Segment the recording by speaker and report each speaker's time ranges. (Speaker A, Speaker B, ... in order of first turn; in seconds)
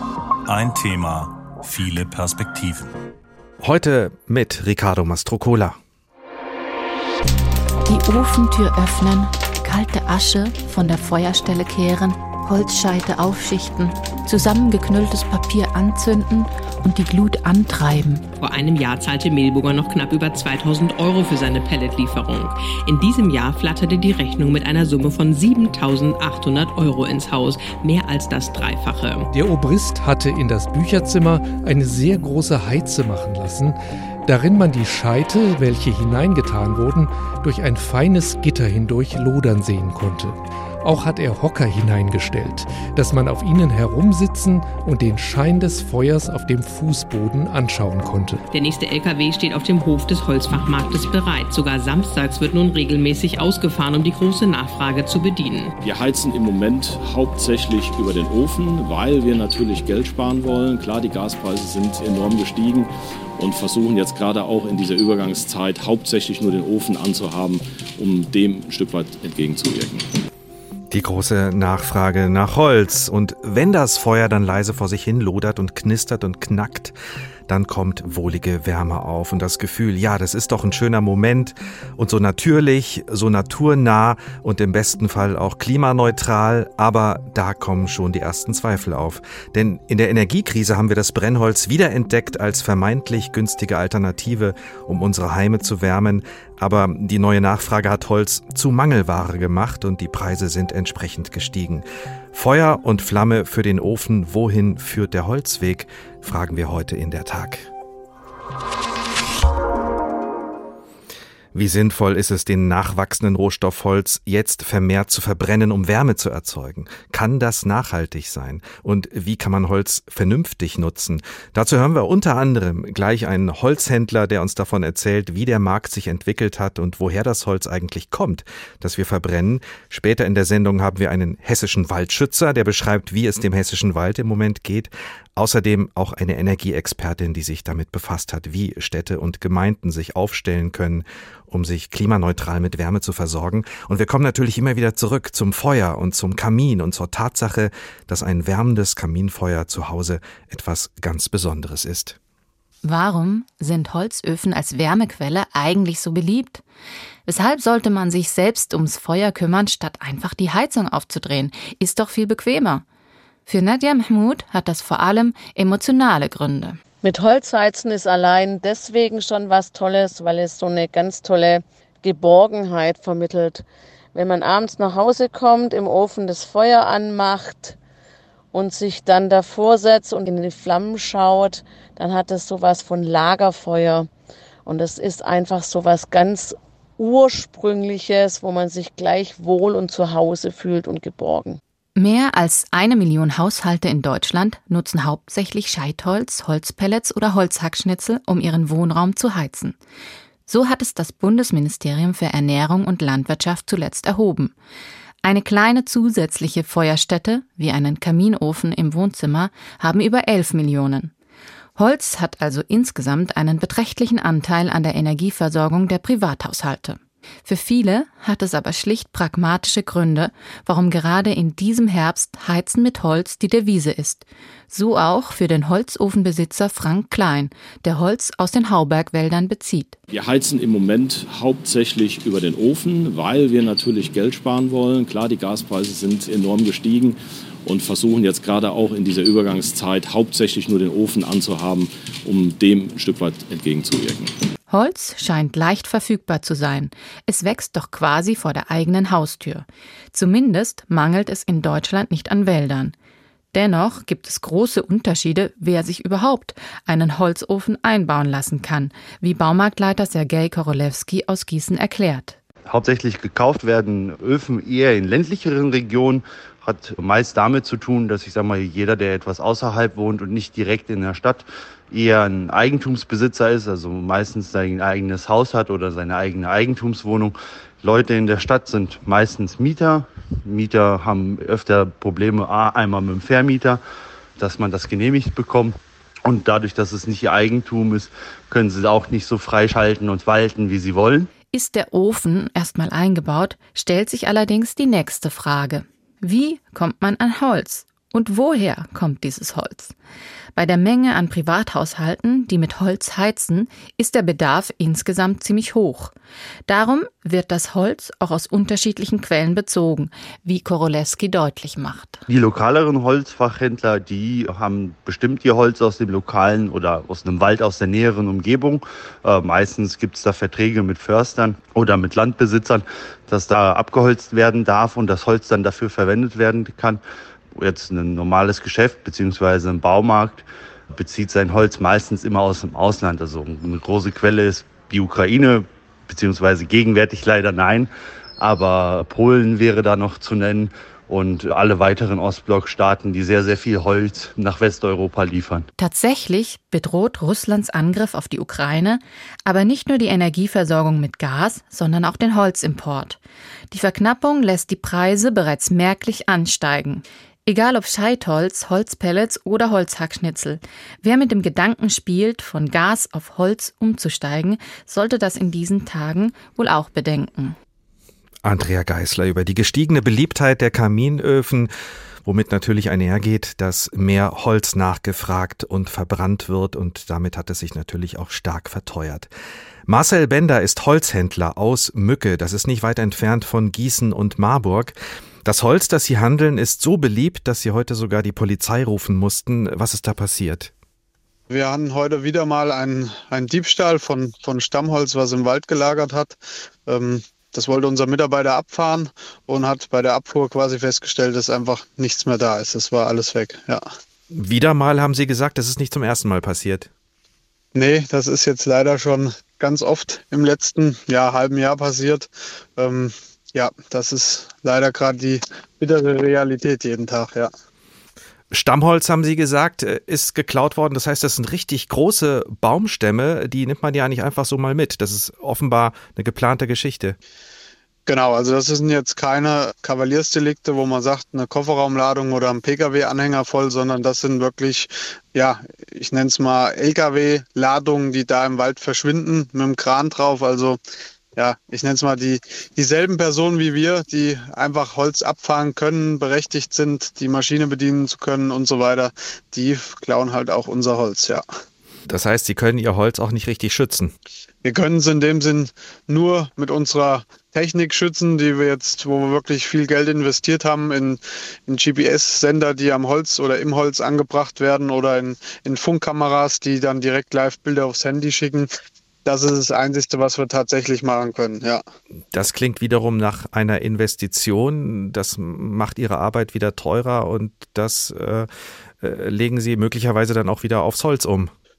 Speaker A: 0.5-3.0
Speaker B: 3.6-5.8, 70.9-77.0, 77.5-107.7, 111.5-152.2, 368.4-371.7, 372.2-379.3, 379.9-390.7, 404.3-406.9, 418.5-427.2, 452.1-454.1, 472.3-478.5, 479.0-481.5
Speaker C: 7.9-18.2, 152.8-156.6, 157.2-162.8, 163.5-166.8, 191.9-199.8, 200.5-204.5, 205.2-211.1, 211.8-230.0, 244.7-252.9, 253.5-262.4, 291.5-299.9, 300.6-306.1, 306.7-312.2, 345.8-353.2, 353.7-367.6
Speaker D: 18.4-29.3, 48.5-55.7
Speaker E: 29.3-48.4
Speaker F: 55.8-70.1, 230.1-244.3
Speaker G: 167.0-177.8, 178.5-184.1, 184.6-191.6
Speaker H: 262.7-283.8, 284.4-291.3, 312.3-327.0, 327.5-345.7
Speaker I: 391.5-403.9, 407.7-417.5, 428.1-440.8, 441.4-451.4, 454.6-468.7, 469.2-471.8